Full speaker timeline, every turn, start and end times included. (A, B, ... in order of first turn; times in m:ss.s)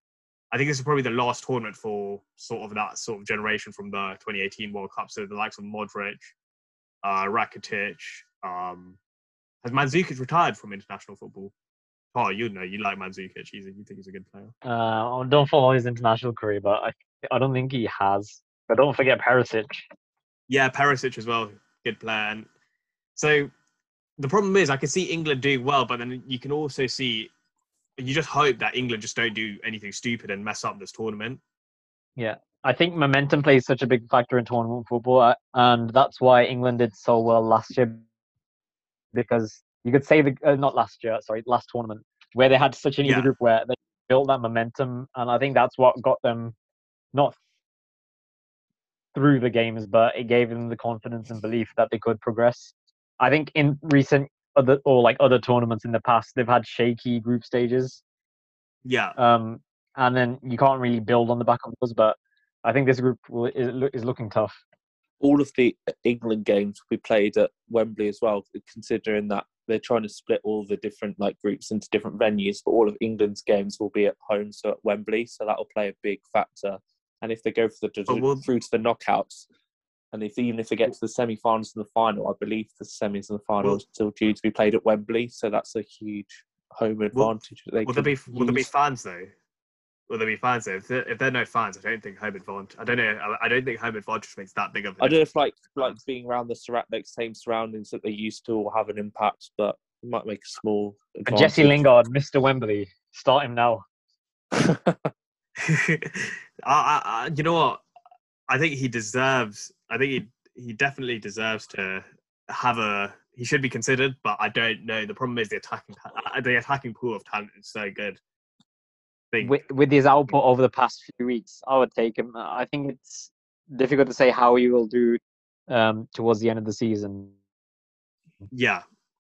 0:00.5-0:06.3 A
0:07.0-0:09.0 A
0:09.6-0:11.5 A
0:12.1-0:14.5 A
0:14.6-0:19.8 B
0:20.5-0:22.5 A
0:23.2-0:23.5 A
0:24.2-0:27.3 A
0:28.0-0:31.4 A
0:32.2-0:38.0 B
0:39.1-0:46.6 B
0:43.0-0:43.3 A
0:49.2-0:58.0 B
0:58.8-0:59.2 A
0:59.2-1:04.6 B
1:05.2-1:19.5 C
1:18.1-1:18.4 A
1:20.1-1:28.7 C
1:27.8-1:29.3 A
1:30.1-1:35.2 A
1:35.0-1:41.8 C
1:41.3-1:43.8 B
1:44.5-1:45.1 C
1:45.6-1:47.8 A
1:48.5-1:58.2 A
1:59.3-1:59.6 A
1:59.4-2:07.4 B
2:08.5-2:08.8 A